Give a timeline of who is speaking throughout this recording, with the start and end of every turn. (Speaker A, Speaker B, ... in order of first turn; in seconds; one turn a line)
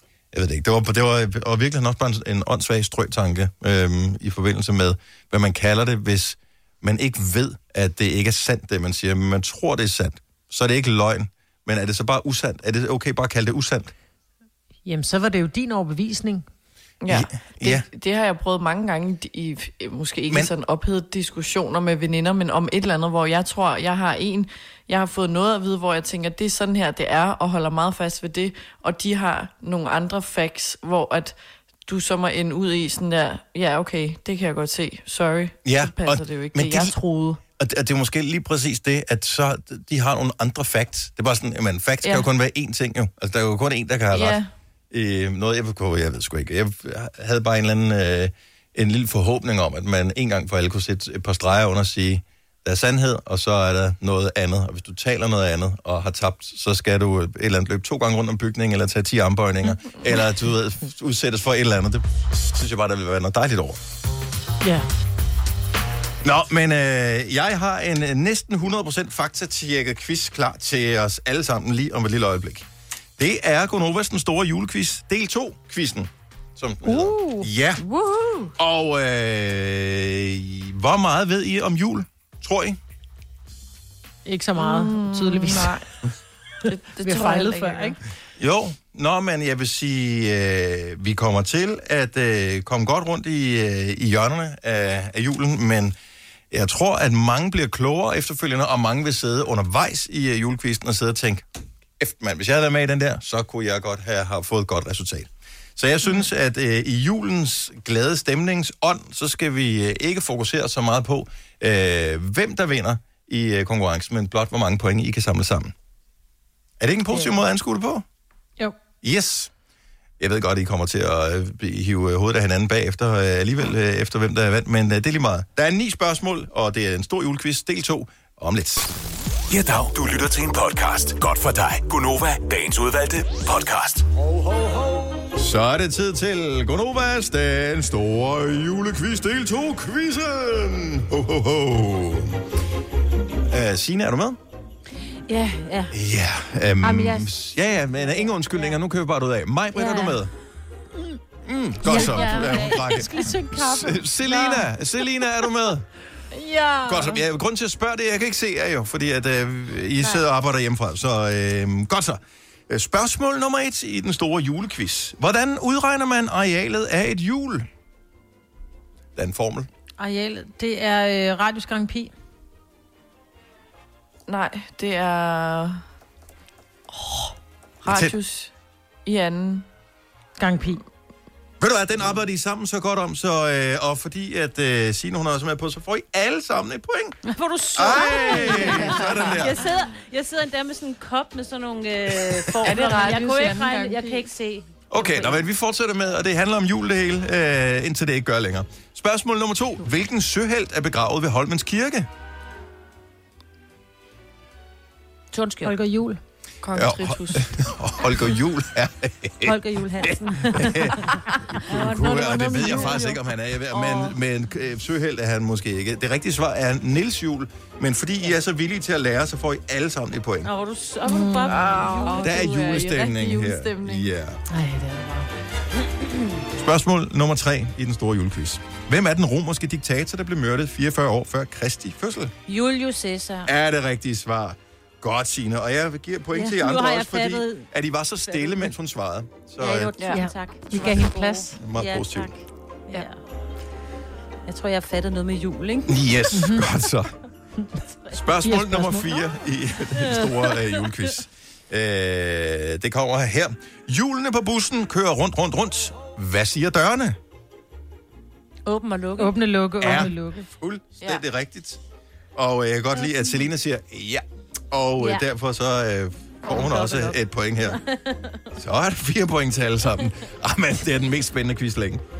Speaker A: 0.3-13.9
Speaker B: 14.8-16.4
Speaker C: 17.0-37.4
Speaker A: 17.1-17.9
Speaker A: 35.6-37.0
Speaker A: 37.6-44.4
Speaker C: 44.1-44.5
Speaker A: 44.9-63.8
Speaker A: 66.2-72.7
Speaker A: 73.2-77.8
Speaker B: 76.8-77.5
Speaker C: 77.8-78.5
Speaker A: 78.6-82.8
Speaker B: 84.2-85.7
Speaker C: 84.5-85.9
Speaker C: 86.6-88.0
Speaker B: 87.0-88.0
Speaker A: 88.4-95.9
Speaker A: 96.5-101.5
Speaker A: 102.0-115.7
Speaker A: 116.8-118.0
Speaker A: 119.0-119.5
Speaker A: 120.2-128.9
Speaker D: 129.5-134.0
Speaker A: 135.3-142.4
Speaker A: 143.5-144.4
Speaker E: 145.3-146.0
Speaker A: 145.9-150.3
Speaker E: 146.8-147.3
Speaker E: 147.9-148.8
Speaker E: 149.7-150.2
Speaker A: 151.4-155.8
Speaker E: 151.8-153.3
Speaker B: 151.8-154.7
Speaker B: 156.4-157.1
Speaker A: 156.8-167.7
Speaker A: 169.2-169.7
Speaker B: 170.0-172.1
Speaker C: 174.3-175.8
Speaker C: 176.9-178.5
Speaker A: 177.8-178.1
Speaker C: 179.1-179.6
Speaker B: 180.4-180.8
Speaker A: 181.6-187.2
Speaker E: 187.3-195.4
Speaker A: 187.7-189.7
Speaker C: 188.5-188.9
Speaker A: 192.3-192.7
Speaker C: 192.6-194.3
Speaker B: 192.8-193.4
Speaker A: 194.9-202.1
Speaker E: 205.3-205.7
Speaker B: 205.6-206.2
Speaker C: 206.6-207.5
Speaker A: 206.7-211.0
Speaker E: 209.4-213.2
Speaker A: 211.6-220.5
Speaker C: 211.8-213.1
Speaker E: 213.7-214.2
Speaker E: 220.4-222.9
Speaker B: 221.0-221.7
Speaker C: 221.5-224.1
Speaker A: 222.2-224.4
Speaker B: 224.5-225.3
Speaker A: 226.5-232.3
Speaker E: 232.5-233.5
Speaker A: 233.4-240.0
Speaker E: 236.3-237.7
Speaker E: 238.2-238.7
Speaker E: 239.6-243.2
Speaker C: 240.0-240.9
Speaker B: 240.1-241.5
Speaker A: 241.5-242.3
Speaker E: 244.4-246.0
Speaker A: 245.9-247.1
Speaker B: 246.3-246.7
Speaker A: 248.1-257.2
Speaker B: 248.4-249.2
Speaker E: 249.9-251.2
Speaker E: 258.6-260.1
Speaker B: 259.2-260.5
Speaker A: 259.8-261.8
Speaker A: 262.3-267.8
Speaker E: 265.0-265.2
Speaker E: 266.4-268.5
Speaker A: 268.6-272.0